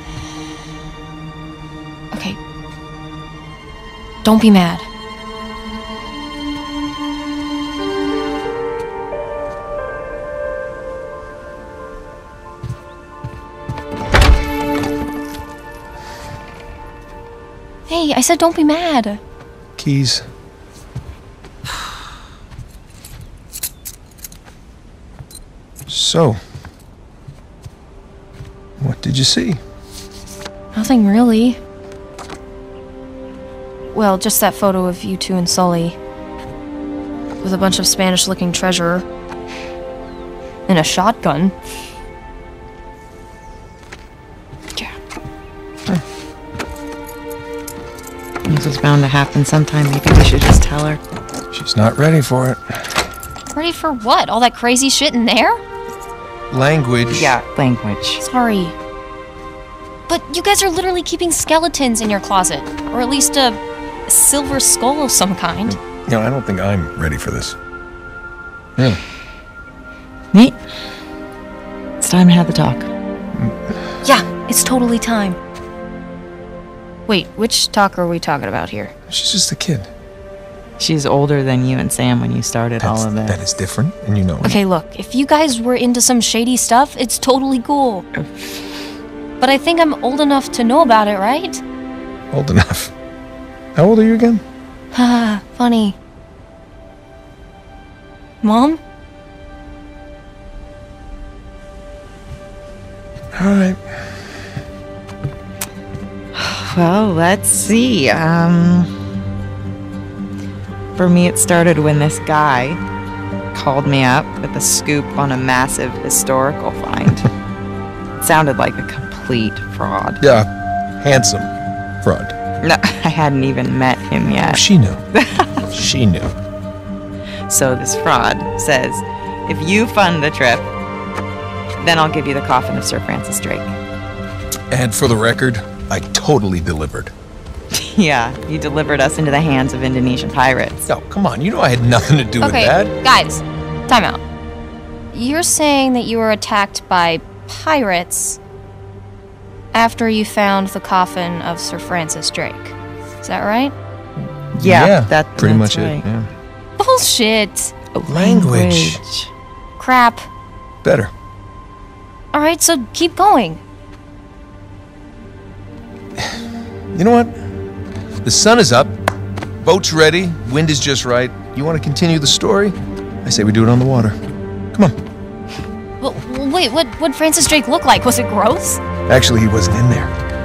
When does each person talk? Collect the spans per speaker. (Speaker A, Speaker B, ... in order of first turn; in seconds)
Speaker A: 2.1-2.4, 4.2-4.8, 17.9-19.2, 30.7-31.6, 33.9-36.0, 37.4-39.0, 40.7-41.5, 53.5-55.6, 58.2-58.8, 60.1-65.8, 74.0-75.4, 77.1-78.9, 84.4-88.0, 89.4-91.6, 94.9-96.0, 98.4-98.8, 142.4-144.2, 145.1-148.4, 149.7-153.7, 156.8-157.7, 159.8-160.3, 162.3-163.6, 176.0-178.8
Speaker B: 19.8-20.2, 25.9-26.4, 28.8-29.6, 51.5-52.8, 56.5-57.3, 65.7-67.5, 73.3-73.8, 79.1-79.9, 82.8-84.6, 92.3-92.9, 93.7-94.4, 103.3-104.4, 120.2-121.5, 122.0-122.3, 124.4-125.0, 125.7-126.3, 134.7-137.1, 140.9-142.9, 154.4-156.3, 158.1-159.0, 160.8-161.1, 166.2-167.3, 168.2-168.9, 169.6-174.2, 179.1-180.1
Speaker C: 48.5-51.0, 57.1-58.2, 70.3-70.6, 72.0-72.9, 80.8-83.4, 88.2-88.8, 106.3-108.9, 110.9-112.8, 113.5-117.3, 118.2-120.2, 122.6-125.7, 127.5-130.7, 131.8-133.7, 137.7-140.9, 154.6-156.0, 157.9-159.3